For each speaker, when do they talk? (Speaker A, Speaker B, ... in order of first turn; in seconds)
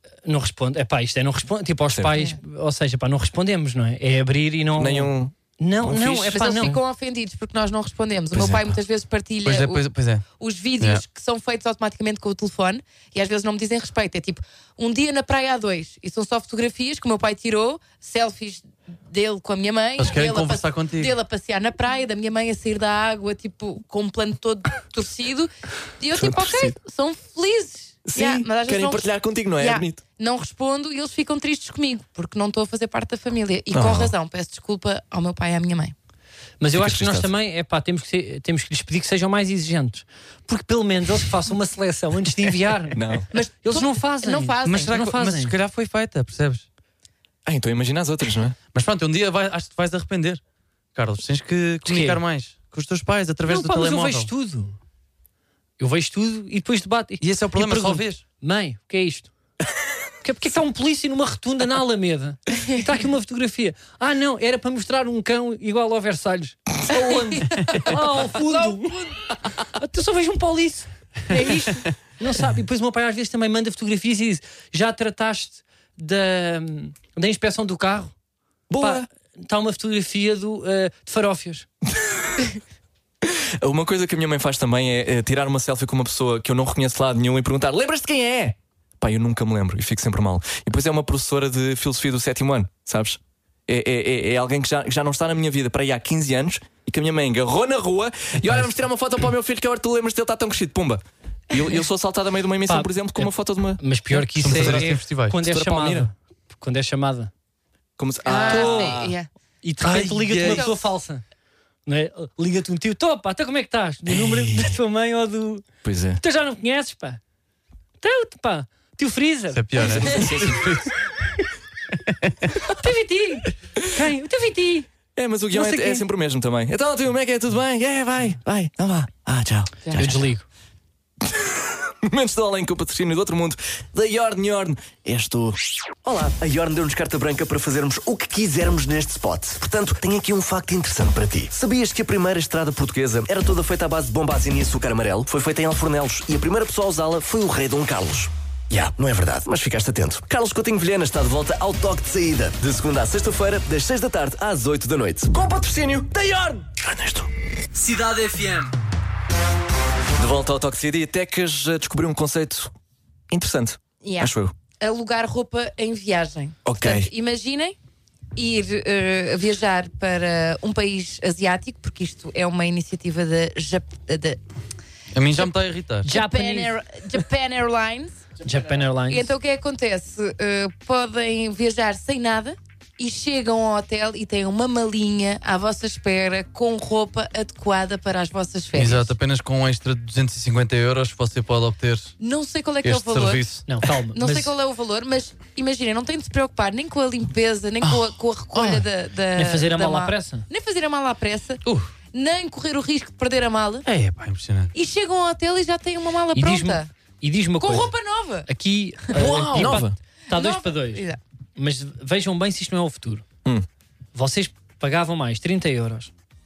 Speaker A: 0.2-6.8, 36.6-45.5, 51.9-52.2, 53.5-54.8, 55.8-59.3, 60.2-69.1, 69.7-78.1, 78.8-81.7, 102.7-107.3, 108.5-108.9, 109.6-111.2, 111.8-115.6, 116.2-117.2, 118.0-119.9, 122.7-124.9, 125.5-126.0, 129.9-130.4, 176.0-176.7, 178.4-179.3, 193.7-194.5, 199.3-200.4, 206.3-207.9, 208.4-213.2, 214.1-216.1
Speaker B: 4.7-6.6, 8.3-8.8, 26.1-26.8, 28.1-30.0, 33.7-34.1, 36.7-37.3, 43.0-43.3, 47.4-48.6, 78.7-79.0, 83.2-103.8, 104.4-106.1, 108.0-109.2, 115.8-116.2, 119.8-120.8, 125.2-130.2, 131.2-136.1, 149.7-150.6, 155.3-157.3, 160.2-162.7, 163.3-164.5, 166.6-167.1, 209.1-210.0
Speaker C: 6.3-9.8, 10.4-35.9, 43.3-44.9, 68.5-68.8, 108.2-109.3, 110.4-110.8, 164.0-167.8, 168.3-174.4, 176.0-178.2, 179.1-189.1, 192.2-193.4, 194.1-201.6, 202.1-203.8, 204.7-206.9, 207.6-208.5, 209.1-211.2
Speaker D: 9.4-10.2, 20.0-21.1, 44.6-46.6, 48.7-50.4, 50.9-54.3, 57.2-58.2, 104.1-105.4, 109.8-110.7, 119.5-120.9, 122.1-122.3, 157.7-158.7, 175.1-176.1, 188.7-192.1, 192.8-193.7, 197.8-198.8, 201.6-201.9, 203.8-204.7
Speaker E: 136.1-155.4